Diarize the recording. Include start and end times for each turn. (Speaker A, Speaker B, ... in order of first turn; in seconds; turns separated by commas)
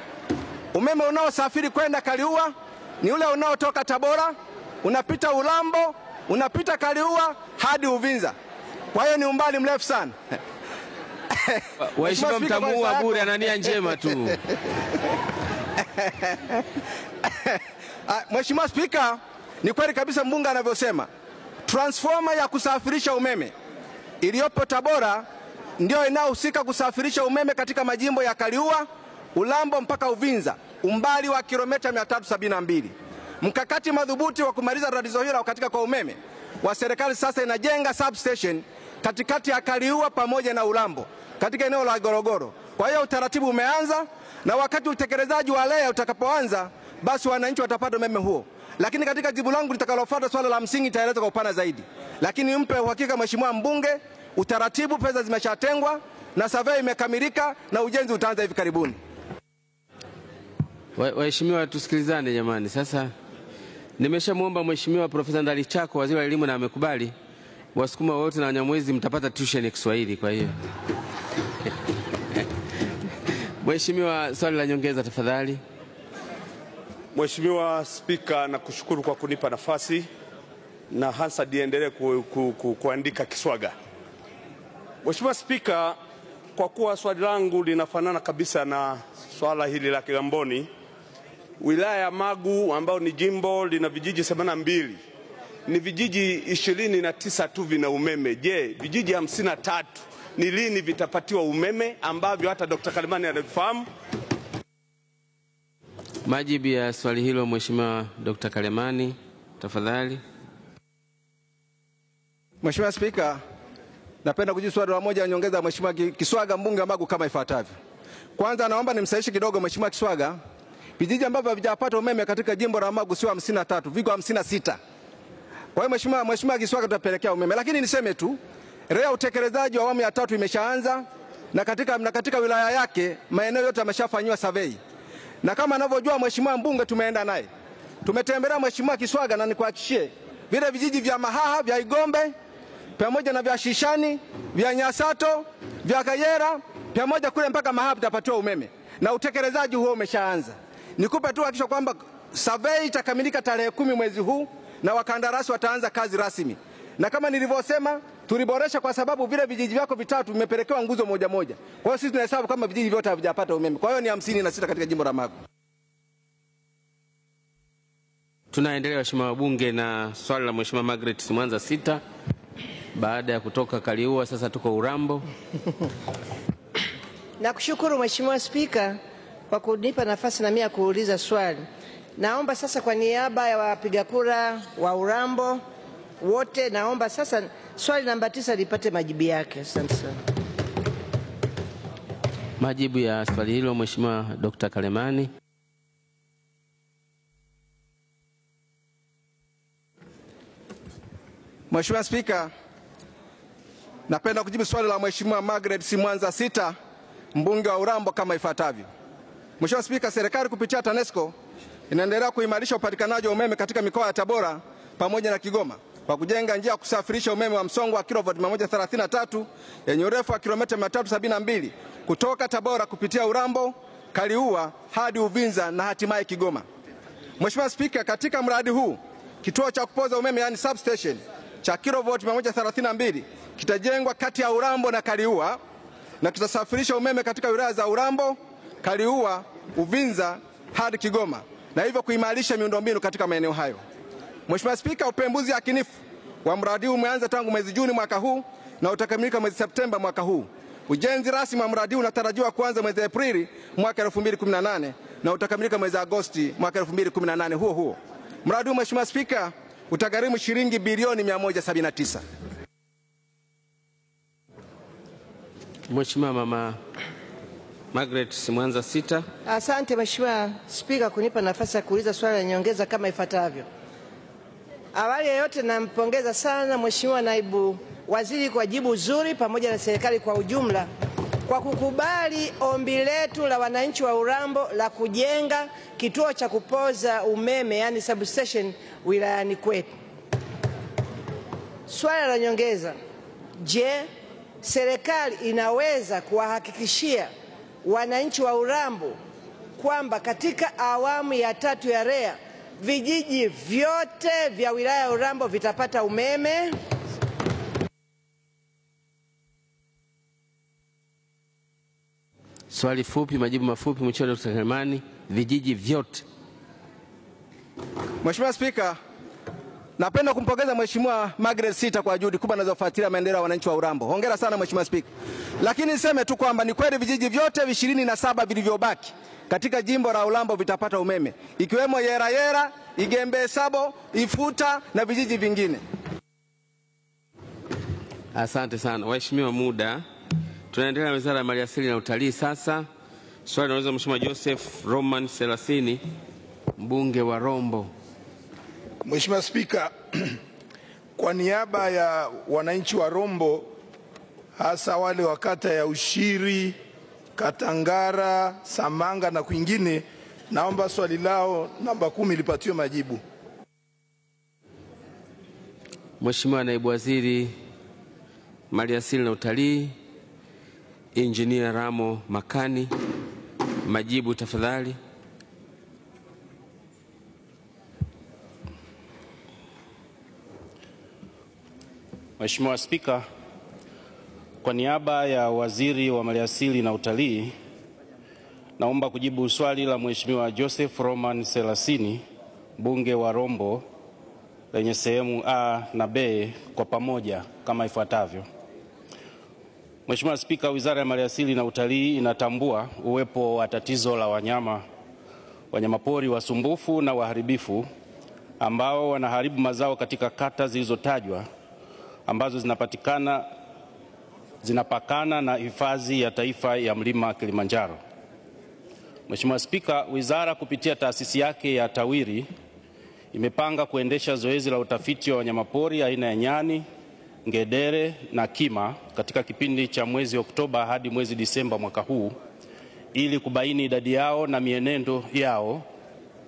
Speaker A: 0.7-8.3, Speaker A: 8.9-10.2, Speaker A: 11.3-13.4, Speaker B: 11.8-14.4, Speaker A: 17.3-21.1, Speaker A: 21.6-23.5, Speaker A: 24.2-25.2, Speaker A: 25.8-59.0, Speaker B: 61.0-63.1, Speaker B: 64.0-67.1, Speaker B: 67.7-70.5, Speaker B: 73.6-75.6, Speaker C: 77.1-80.1, Speaker C: 80.9-83.7, Speaker C: 85.0-86.0, Speaker C: 86.5-90.7, Speaker C: 91.6-95.0, Speaker C: 95.7-103.9, Speaker B: 106.2-110.2, Speaker A: 112.6-113.4, Speaker A: 114.2-117.7, Speaker A: 118.4-120.4, Speaker A: 121.0-124.8, Speaker A: 125.7-128.4, Speaker A: 128.9-134.8, Speaker A: 135.4-137.5, Speaker A: 138.0-142.3, Speaker A: 143.0-165.3, Speaker B: 168.5-172.0, Speaker B: 172.9-175.2, Speaker D: 177.4-179.0, Speaker D: 179.5-181.6, Speaker D: 182.2-185.6, Speaker D: 186.2-190.2, Speaker B: 192.6-195.3, Speaker A: 201.7-202.5, Speaker A: 204.1-206.8, Speaker A: 207.3-208.9, Speaker A: 209.6-211.3, Speaker A: 211.9-226.6, Speaker A: 227.4-235.6, Speaker A: 236.2-243.8, Speaker A: 244.5-245.9, Speaker A: 246.4-262.2, Speaker B: 265.9-266.8, Speaker B: 267.9-269.2, Speaker D: 269.4-273.7, Speaker D: 274.9-280.9, Speaker D: 281.5-289.9, Speaker D: 291.9-292.9, Speaker D: 293.6-294.1, Speaker D: 294.6-297.3, Speaker D: 297.8-299.2, Speaker D: 299.8-306.8, Speaker B: 312.7-316.2, Speaker A: 318.2-319.0, Speaker A: 320.0-325.1, Speaker A: 325.6-335.8, Speaker B: 338.3-340.0, Speaker B: 340.7-342.9, Speaker B: 343.4-346.0, Speaker B: 346.8-347.9, Speaker E: 349.0-350.3, Speaker E: 351.2-353.7, Speaker E: 354.6-356.8, Speaker E: 357.4-363.2, Speaker B: 366.2-367.5, Speaker B: 368.7-369.9, Speaker B: 371.1-372.9, Speaker B: 373.8-375.0, Speaker F: 382.4-383.2, Speaker F: 384.6-387.5, Speaker F: 388.8-392.2, Speaker F: 392.8-393.8, Speaker F: 394.7-398.5, Speaker F: 400.1-404.8, Speaker F: 405.7-407.9, Speaker F: 408.6-411.5, Speaker F: 412.3-413.5, Speaker F: 414.6-418.0, Speaker F: 419.3-422.5, Speaker F: 423.3-426.8, Speaker F: 427.4-432.4, Speaker F: 433.1-435.8